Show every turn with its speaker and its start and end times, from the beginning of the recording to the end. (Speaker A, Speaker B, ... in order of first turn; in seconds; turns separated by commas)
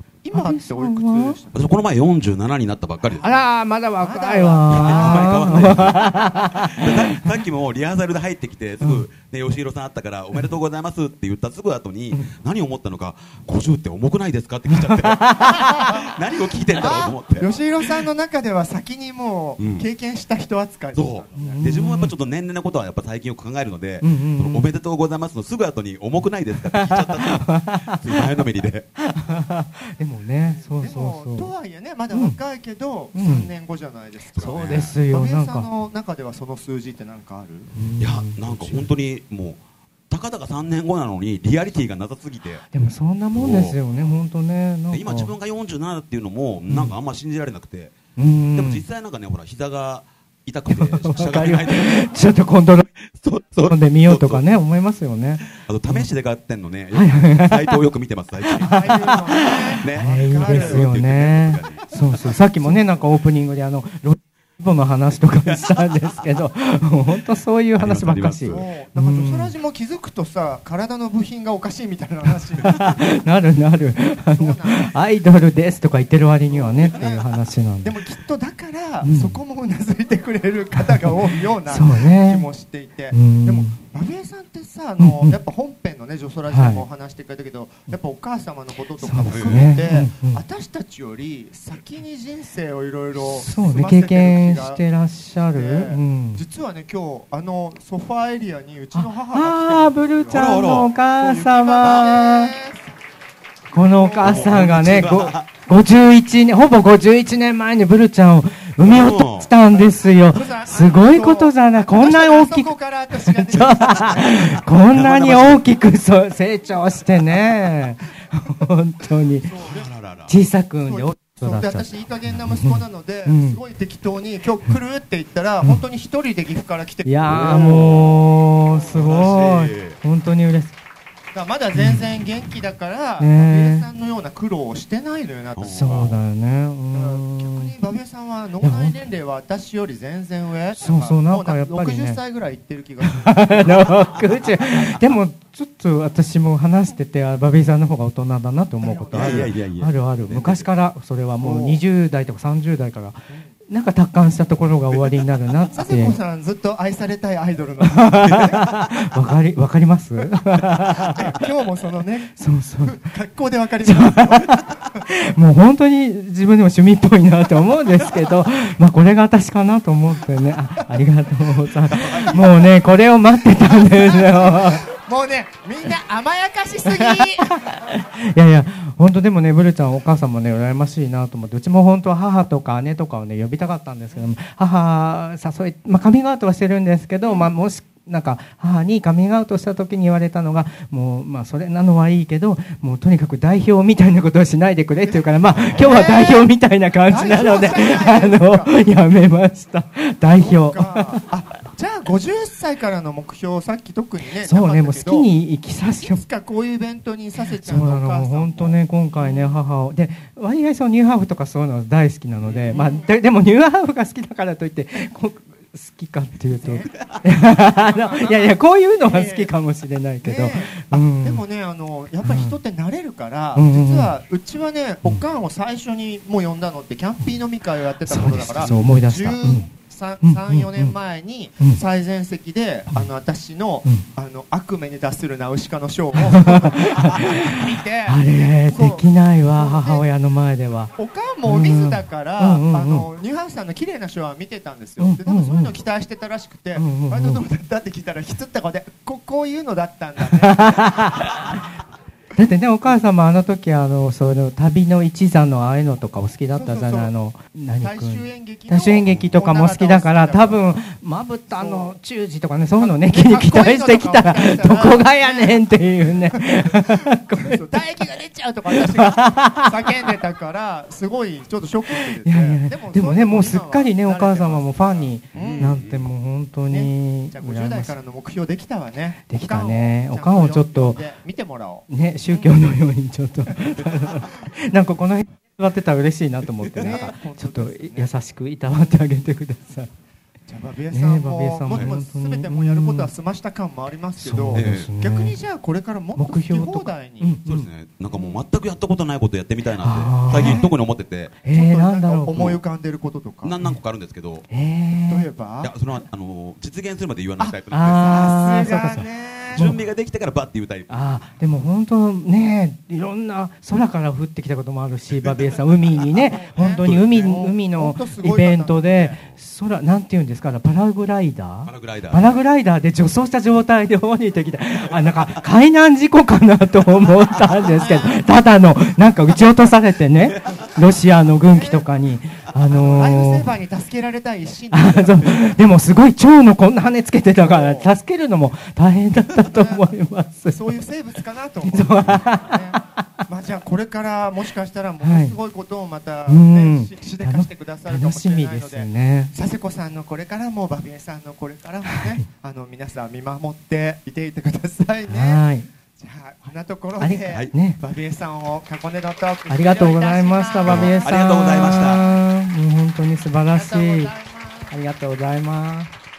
Speaker A: 0.2-1.6, Speaker B: 0.3-1.4, Speaker C: 1.5-3.2, Speaker A: 3.1-3.5, Speaker B: 3.2-7.2, Speaker A: 4.0-6.0, Speaker C: 4.7-6.1, Speaker C: 6.8-17.6, Speaker B: 8.8-9.1, Speaker B: 14.7-15.9, Speaker A: 16.8-21.7, Speaker C: 19.6-19.8, Speaker C: 20.9-28.9, Speaker B: 21.3-22.1, Speaker B: 24.0-24.7, Speaker B: 26.7-28.4, Speaker B: 29.0-31.5, Speaker A: 30.5-37.7, Speaker B: 32.1-32.4, Speaker B: 33.1-33.5, Speaker C: 34.3-35.0, Speaker B: 34.4-35.7, Speaker B: 37.7-38.9, Speaker C: 38.0-42.6, Speaker B: 42.7-45.3, Speaker C: 43.3-43.8, Speaker C: 44.9-48.0, Speaker B: 46.7-47.0, Speaker B: 48.2-48.8, Speaker C: 48.5-52.1, Speaker B: 50.7-52.9, Speaker C: 53.1-54.5, Speaker B: 53.7-56.1, Speaker C: 55.6-58.9, Speaker B: 56.9-57.8, Speaker B: 58.5-69.5, Speaker A: 58.6-60.9, Speaker C: 59.8-61.9, Speaker A: 61.8-63.0, Speaker C: 67.8-68.6, Speaker A: 68.5-73.0, Speaker B: 72.6-78.0, Speaker A: 74.3-75.0, Speaker A: 76.5-77.3, Speaker A: 77.8-94.8, Speaker B: 79.0-79.4, Speaker B: 80.7-82.5, Speaker B: 83.1-83.8, Speaker B: 85.0-85.4, Speaker B: 86.5-86.8, Speaker B: 89.0-90.4, Speaker C: 89.3-89.7, Speaker B: 93.2-96.4, Speaker A: 95.5-102.9, Speaker B: 98.9-102.5, Speaker C: 100.3-100.9, Speaker B: 103.7-119.5, Speaker A: 103.8-104.9, Speaker C: 104.2-105.5, Speaker C: 108.8-109.5, Speaker A: 109.6-115.0, Speaker C: 114.0-114.2, Speaker C: 114.9-115.7, Speaker A: 119.4-119.9, Speaker C: 119.6-120.3, Speaker B: 120.3-123.6, Speaker A: 120.8-129.1, Speaker B: 127.0-130.7, Speaker C: 127.3-128.1, Speaker C: 128.9-130.0, Speaker A: 131.3-136.1, Speaker B: 131.7-132.1, Speaker B: 133.2-133.9, Speaker C: 135.6-136.2, Speaker B: 135.6-137.7, Speaker A: 136.9-143.9, Speaker B: 138.6-139.0, Speaker B: 140.8-142.2, Speaker B: 143.1-156.2, Speaker A: 148.8-149.5, Speaker C: 149.1-150.7, Speaker A: 151.4-151.8, Speaker A: 155.7-158.7, Speaker B: 157.8-161.3, Speaker A: 160.9-164.6, Speaker B: 162.4-163.0, Speaker B: 163.8-174.8, Speaker C: 171.9-172.3, Speaker A: 171.9-177.8, Speaker B: 176.9-201.2, Speaker A: 187.2-187.5, Speaker A: 195.0-196.5, Speaker A: 197.0-198.7, Speaker A: 200.3-205.3, Speaker B: 204.4-206.2, Speaker A: 206.0-209.4, Speaker B: 207.6-221.4, Speaker A: 212.7-213.1, Speaker A: 216.5-219.5, Speaker A: 220.2-240.1, Speaker B: 222.2-222.6, Speaker B: 223.5-224.1, Speaker B: 228.0-229.7, Speaker B: 230.2-230.9, Speaker B: 236.1-240.9, Speaker A: 240.9-251.3, Speaker B: 241.4-243.1, Speaker B: 245.0-245.8, Speaker B: 246.8-247.4, Speaker B: 250.3-251.5, Speaker B: 252.4-267.6, Speaker A: 256.5-257.1, Speaker A: 257.8-260.8, Speaker A: 261.5-262.0, Speaker A: 262.8-275.7, Speaker B: 268.7-270.1, Speaker B: 272.2-277.9, Speaker C: 275.3-276.1, Speaker A: 276.7-282.6, Speaker B: 279.3-281.0, Speaker B: 281.9-289.9, Speaker A: 286.8-288.1, Speaker A: 290.5-297.4, Speaker B: 290.9-293.1, Speaker B: 294.2-295.4, Speaker C: 294.5-294.9, Speaker B: 296.1-297.7, Speaker C: 297.4-301.4, Speaker A: 298.1-298.4, Speaker B: 299.8-300.7, Speaker A: 300.3-300.7, Speaker A: 301.4-303.6, Speaker B: 301.4-302.5, Speaker C: 302.3-302.6, Speaker C: 303.4-304.4, Speaker B: 304.5-305.3, Speaker A: 305.1-305.7, Speaker C: 305.6-308.8, Speaker A: 307.4-309.7, Speaker B: 307.7-309.8, Speaker C: 309.5-311.3, Speaker B: 310.9-333.5, Speaker A: 316.2-319.2, Speaker C: 316.8-317.3, Speaker C: 321.6-322.4, Speaker A: 327.5-328.2, Speaker C: 330.3-330.6, Speaker A: 331.4-331.9, Speaker A: 332.7-335.7, Speaker B: 334.7-340.8, Speaker A: 337.3-337.9, Speaker A: 339.3-339.9, Speaker A: 340.5-361.2, Speaker B: 341.6-342.8, Speaker B: 345.0-345.4, Speaker B: 346.3-349.3, Speaker B: 351.9-352.2, Speaker B: 355.1-355.7, Speaker B: 357.0-357.8, Speaker B: 359.5-364.1, Speaker C: 360.7-362.0, Speaker A: 361.8-362.0, Speaker A: 363.5-364.7, Speaker B: 364.7-365.9